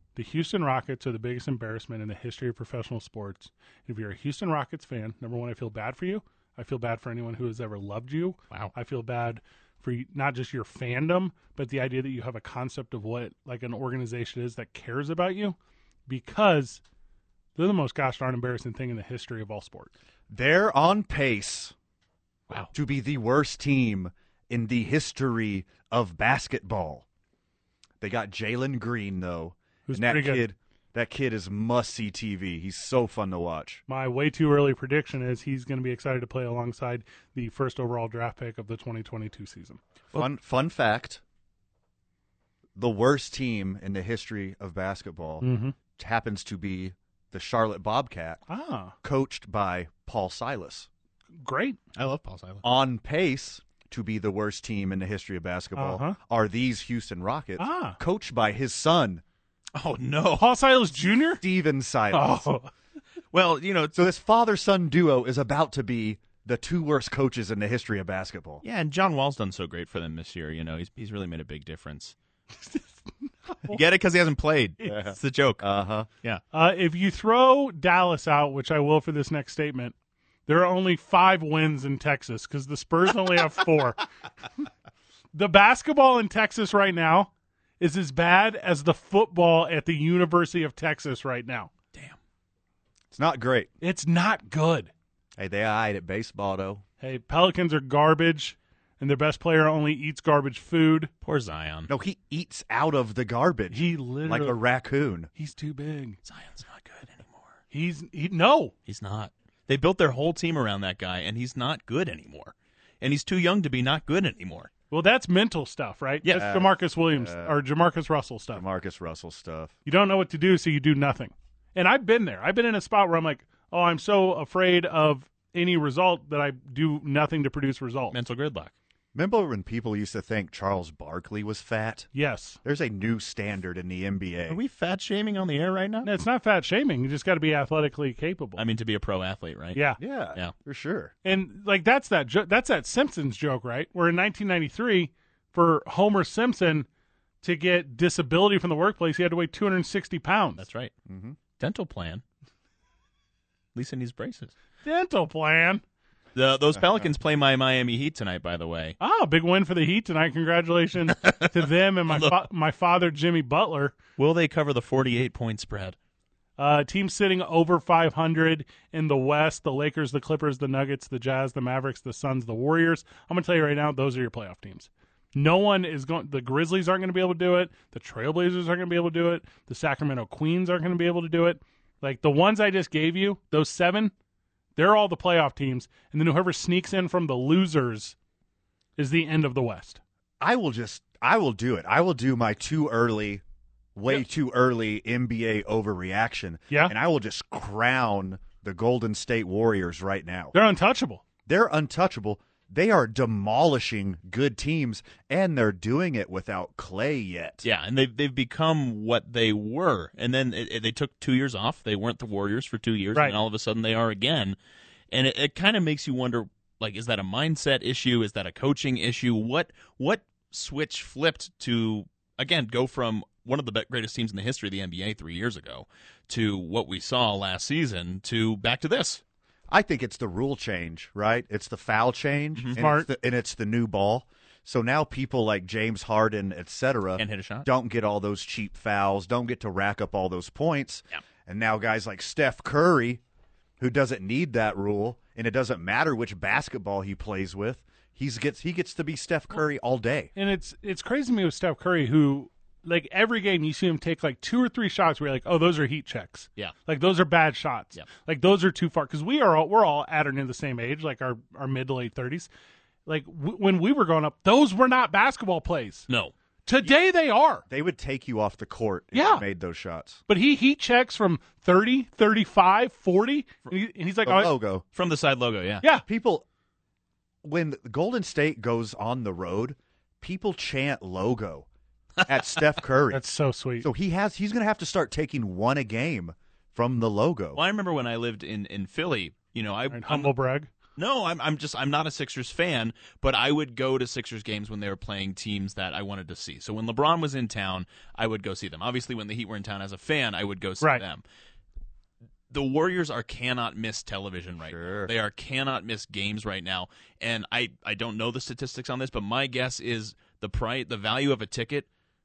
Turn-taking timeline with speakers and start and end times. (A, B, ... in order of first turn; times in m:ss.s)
0:00.2-0:16.8 A
0:17.6-0:19.9 A
0:20.3-0:21.8 B
0:22.7-0:27.0 B
0:28.0-0:33.8 B
0:29.9-0:30.5 A
0:33.9-0:39.8 A
0:40.1-0:41.2 B
0:42.8-0:48.4 B
0:45.4-0:45.8 A
0:48.5-0:49.0 A
0:49.0-0:50.9 B
0:51.4-0:51.8 A
0:52.0-0:52.6 C
0:52.6-0:59.2 B
0:55.8-0:56.2 A
0:57.6-0:58.0 A
0:59.8-1:00.5 C
1:00.4-1:01.4 A
1:01.4-1:02.5 B
1:02.1-1:02.7 A
1:03.3-1:04.0 C
1:03.9-1:08.6 B
1:08.6-1:12.2 C
1:13.7-1:15.6 C
1:14.8-1:16.1 B
1:16.5-1:19.9 A
1:20.5-1:24.0 A
1:25.3-1:31.7 A
1:33.1-1:33.7 B
1:33.8-1:34.9 A
1:35.4-1:36.8 B
1:37.0-1:41.1 A
1:41.2-1:41.9 C
1:41.9-1:45.3 B
1:43.7-1:44.6 A
1:45.4-1:46.2 A
1:46.3-1:47.6 C
1:47.7-1:48.7 A
1:48.9-1:54.7 C
1:54.9-1:58.6 A
1:56.2-1:56.6 C
1:56.4-1:57.6 B
1:58.5-1:59.7 B
1:59.9-2:08.2 A
2:08.1-2:08.7 C
2:09.1-2:12.1 B
2:12.1-2:12.6 A
2:12.6-2:14.6 B
2:14.5-2:16.1 C
2:16.0-2:18.6 A
2:18.6-2:20.5 C
2:19.7-2:20.0 A
2:20.0-2:21.1 B
2:21.2-2:26.9 A
2:27.4-2:30.6 A
2:30.6-2:30.9 C
2:31.1-2:31.4 B
2:31.6-2:32.2 C
2:33.8-2:34.5 C
2:34.8-2:35.8 A
2:36.4-2:39.0 C
2:39.0-2:44.0 A
2:41.2-2:41.5 C
2:42.1-2:42.4 C
2:44.2-2:46.0 C
2:46.6-3:04.1 A
3:04.8-3:08.2 A
3:09.0-3:10.0 A
3:10.4-3:13.4 B
3:14.0-3:20.5 B
3:20.5-3:21.2 A
3:21.5-3:27.6 B
3:27.6-3:34.6 C
3:35.1-3:49.2 C
3:49.7-4:03.2 B
3:52.6-3:52.8 C
3:52.8-3:53.1 A
3:57.2-3:57.7 C
4:03.8-4:10.3 B
4:10.4-4:22.5 A
4:23.1-4:26.1 A
4:26.1-4:26.3 C
4:26.7-4:27.6 A
4:27.7-4:30.2 B
4:29.1-4:29.4 A
4:30.3-4:34.5 A
4:34.2-4:34.8 B
4:34.9-4:35.9 C
4:36.0-4:36.5 B
4:37.4-4:41.7 B
4:42.3-4:43.2 B
4:43.1-4:43.9 A
4:43.8-4:47.6 B
4:47.6-4:50.3 C
4:49.9-4:50.7 A
4:51.0-5:01.2 C
5:02.5-5:11.9 C
5:04.6-5:05.1 B